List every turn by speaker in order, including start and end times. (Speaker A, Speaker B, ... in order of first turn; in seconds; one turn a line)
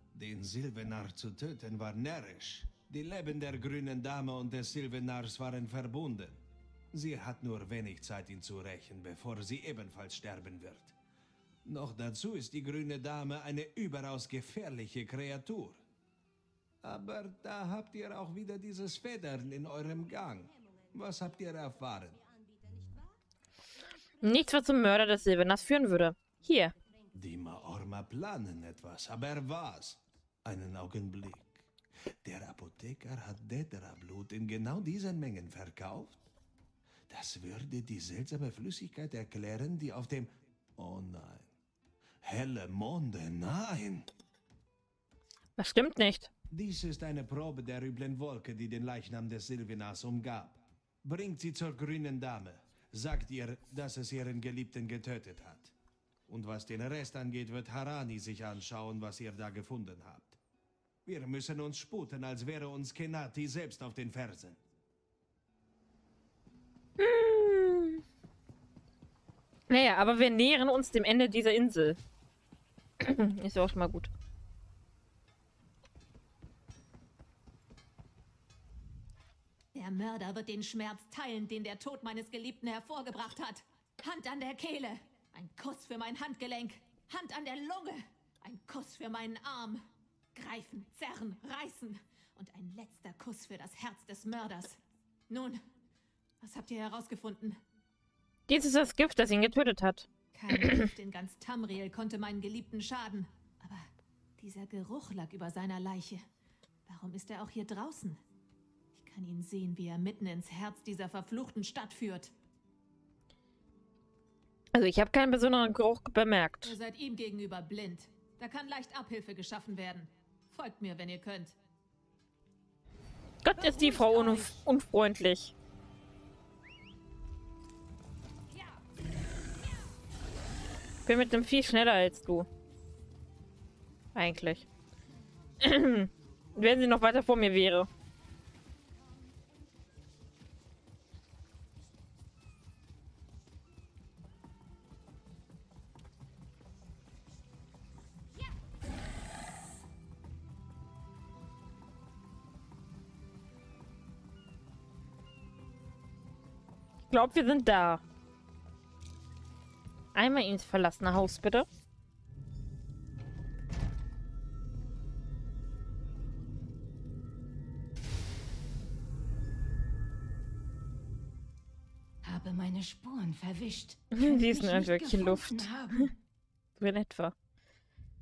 Speaker A: 0.1-6.4
Speaker A: 6.9-10.9
Speaker A: 11.7-15.8
Speaker A: 16.8-22.3
Speaker B: 24.2-26.7
Speaker A: 27.1-36.2
Speaker A: 37.1-41.5
Speaker A: 42.2-44.1
Speaker B: 45.6-46.3
Speaker A: 46.5-55.7
Speaker A: 56.3-60.4
Speaker A: 61.0-64.6
Speaker B: 67.0-68.0
Speaker B: 69.7-72.0
Speaker B: 73.0-74.1
Speaker C: 79.7-89.8
Speaker C: 90.3-95.6
Speaker C: 96.4-97.6
Speaker B: 98.5-100.9
Speaker C: 100.3-106.2
Speaker C: 106.9-108.2
Speaker C: 109.0-112.3
Speaker B: 114.7-116.7
Speaker C: 116.6-121.5
Speaker B: 123.4-125.5
Speaker D: 123.5-124.6
Speaker D: 128.5-128.8
Speaker B: 131.1-132.5
Speaker B: 134.2-134.7
Speaker B: 135.6-137.9
Speaker B: 157.1-158.0
Speaker B: 160.2-161.7
Speaker D: 172.2-176.2
Speaker B: 174.2-175.7
Speaker B: 176.8-177.3